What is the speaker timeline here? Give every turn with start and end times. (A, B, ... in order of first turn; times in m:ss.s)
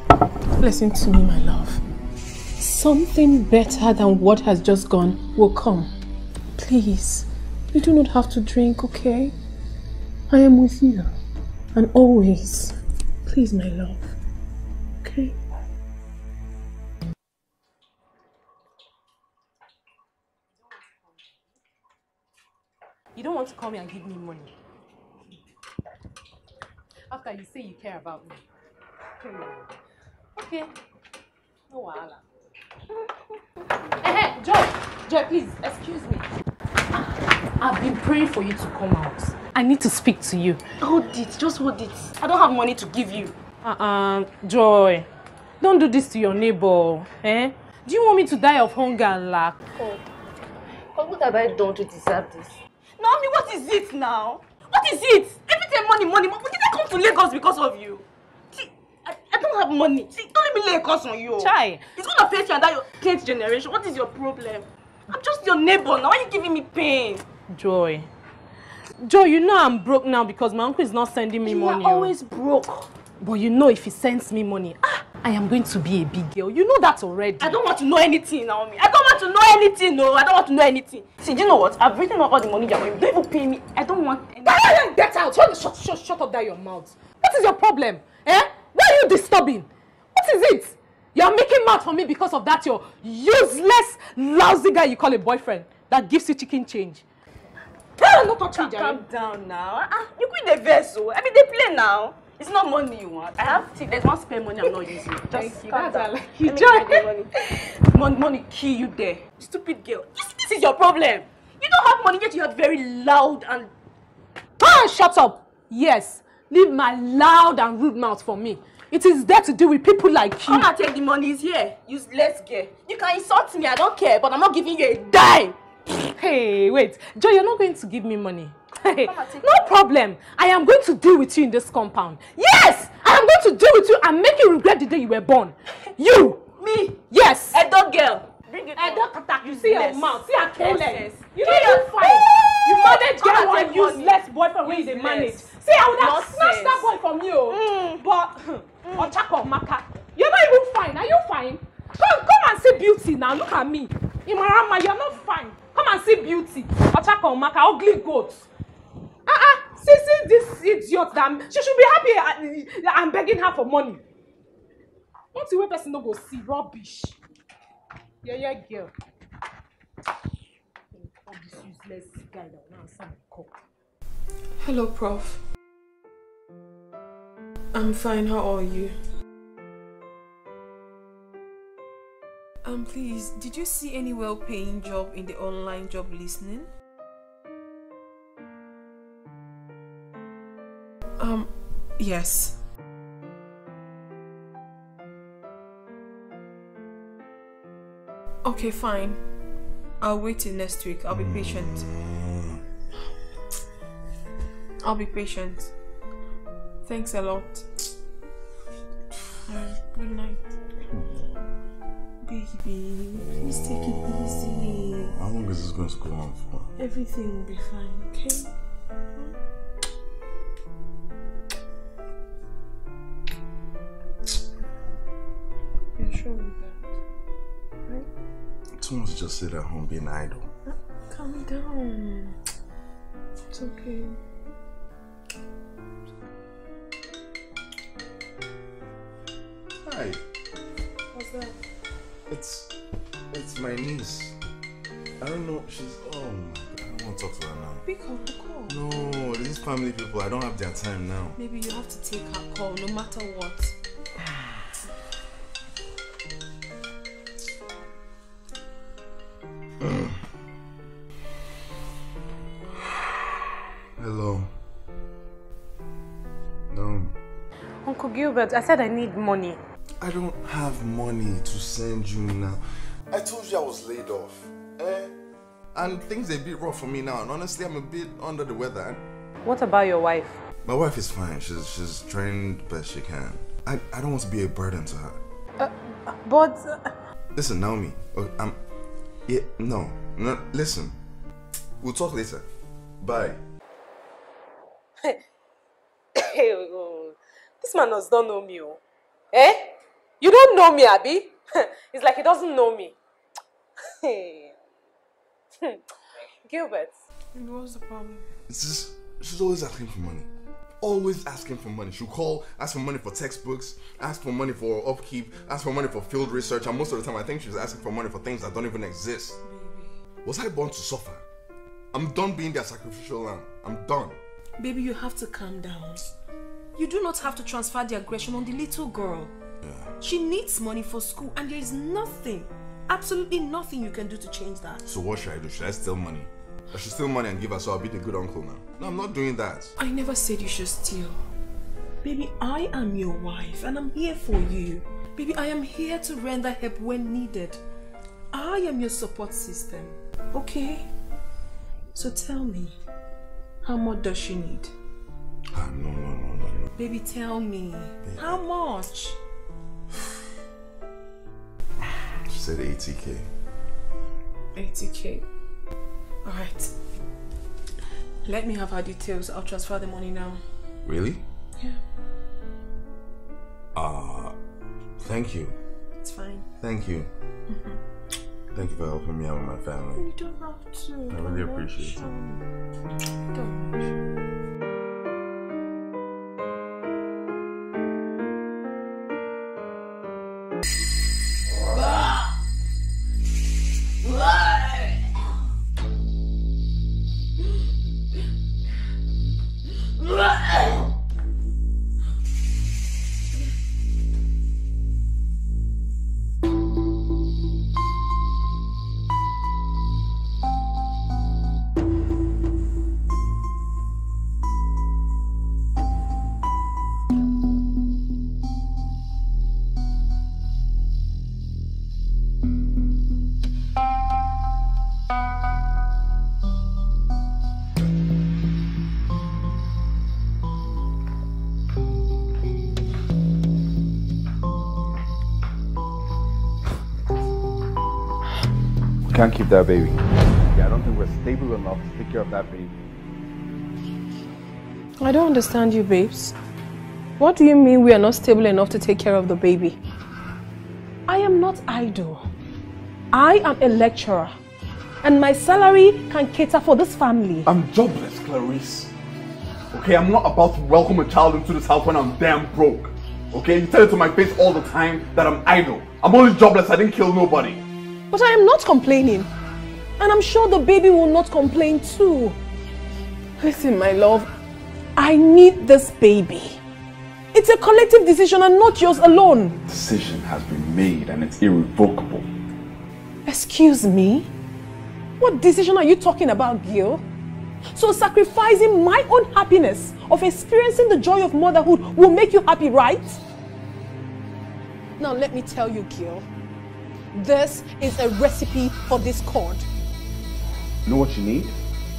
0:00.6-0:01.8 A
0:02.6-0:05.9 A
0:06.6-0:09.4 A
0:10.3-0:11.1 A
0:11.8-0:14.1 A
0:15.0-0:15.4 A
0:23.2-0:24.5 B
0:27.1-0:28.4 B
0:29.2-0:29.6 B
0:30.4-0:30.7 B
0:31.7-0:32.2 B
0:34.0-0:36.3 B
0:37.6-0:40.6 B
0:40.8-0:43.4 C
0:43.6-0:45.1 B
0:45.6-0:49.6 B
0:49.8-0:50.0 C
0:50.9-1:07.3 C
1:01.4-1:01.8 B
1:07.5-1:08.1 B
1:09.0-1:12.2 B
1:11.4-1:12.9 C
1:13.2-1:17.6 B
1:17.4-1:24.7 C
1:24.4-1:37.0 B
1:38.0-1:53.7 C
1:38.0-1:39.0 B
1:45.3-1:47.1 B
1:54.6-2:00.7 B
2:00.4-2:05.6 C
2:06.0-2:16.4 B
2:08.9-2:09.8 C
2:16.6-2:26.9 C
2:17.1-2:17.6 B
2:18.8-2:38.5 B
2:27.5-2:28.0 C
2:28.8-2:29.2 C
2:39.3-2:44.0 B
2:45.3-2:47.2 B
2:48.2-2:48.9 B
2:51.0-2:53.6 B
2:54.6-2:55.4 A
2:57.7-2:59.0 A
3:02.6-3:06.7 A
3:11.2-3:12.6 A
3:18.4-3:19.2 A
3:20.0-3:21.9 A
3:21.1-3:22.6 D
3:24.8-3:25.7 A
3:26.8-3:27.7 A
3:29.5-3:30.5 A
3:30.9-3:31.2 D
3:32.2-3:35.1 A
3:33.3-3:36.7 D
3:36.8-3:38.5 A
3:46.0-3:46.8 A
3:48.8-3:50.5 D
3:50.7-3:52.4 A
3:53.5-3:54.2 A
3:59.8-4:00.2 D
4:01.1-4:01.6 A
4:02.3-4:02.7 D
4:03.3-4:04.4 D
4:05.2-4:07.8 D
4:07.9-4:09.0 A
4:08.7-4:11.4 D
4:11.4-4:13.8 A
4:19.8-4:20.2 D
4:22.8-4:24.5 D
4:26.7-4:27.2 D
4:27.8-4:29.6 B
4:30.0-4:35.1 D
4:35.7-4:39.0 D
4:39.4-4:40.4 B
4:40.6-4:45.2 D
4:45.6-4:46.9 A
4:47.4-4:48.6 D
4:49.3-4:51.0 D
4:51.8-4:52.4 D
4:53.0-4:53.4 D
4:56.2-4:58.8 B
4:59.3-5:03.0 B
5:04.0-5:04.6 B
5:06.5-5:07.0 B
5:07.3-5:08.2 A
5:08.5-5:10.3 D
5:10.8-5:19.4 D
5:19.4-5:19.9 A
5:20.2-5:21.2 D
5:21.9-5:24.2 D
5:24.6-5:26.1 A
5:26.8-5:29.3 A
5:29.6-5:29.9 D
5:30.0-5:34.8 A
5:34.9-5:39.7 D
5:39.8-5:41.2 A
5:42.0-5:47.6 A
5:48.3-5:50.9 A
5:52.0-5:52.8 A
5:53.6-5:54.7 A
5:55.5-5:56.7 D
5:56.8-5:59.2 A
6:02.2-6:03.3 D
6:04.6-6:05.3 A
6:06.2-6:06.7 A
6:08.2-6:10.4 A
6:10.8-6:11.2 D
6:13.8-6:14.4 D
6:15.0-6:15.6 D
6:16.0-6:16.5 A
6:16.6-6:17.1 D
6:18.5-6:20.1 D
6:20.0-6:22.4 A
6:21.1-6:22.0 D
6:23.3-6:24.0 A
7:19.1-7:22.7 D
7:25.0-7:26.4 A
7:27.2-7:29.8 A
7:31.1-7:32.3 A
7:33.1-7:34.3 A
7:35.0-7:37.5 A
7:37.4-7:38.9 D
7:39.7-7:47.6 D
7:48.1-7:49.3 A
7:50.0-7:52.4 A
7:53.4-7:54.3 A
7:55.0-7:56.6 A
7:57.3-7:59.6 A
7:59.7-8:02.3 D
8:03.2-8:04.3 A
8:05.2-8:07.0 A
8:07.7-8:13.2 A
8:15.0-8:16.3 A
8:17.1-8:19.7 A
8:20.9-8:21.6 D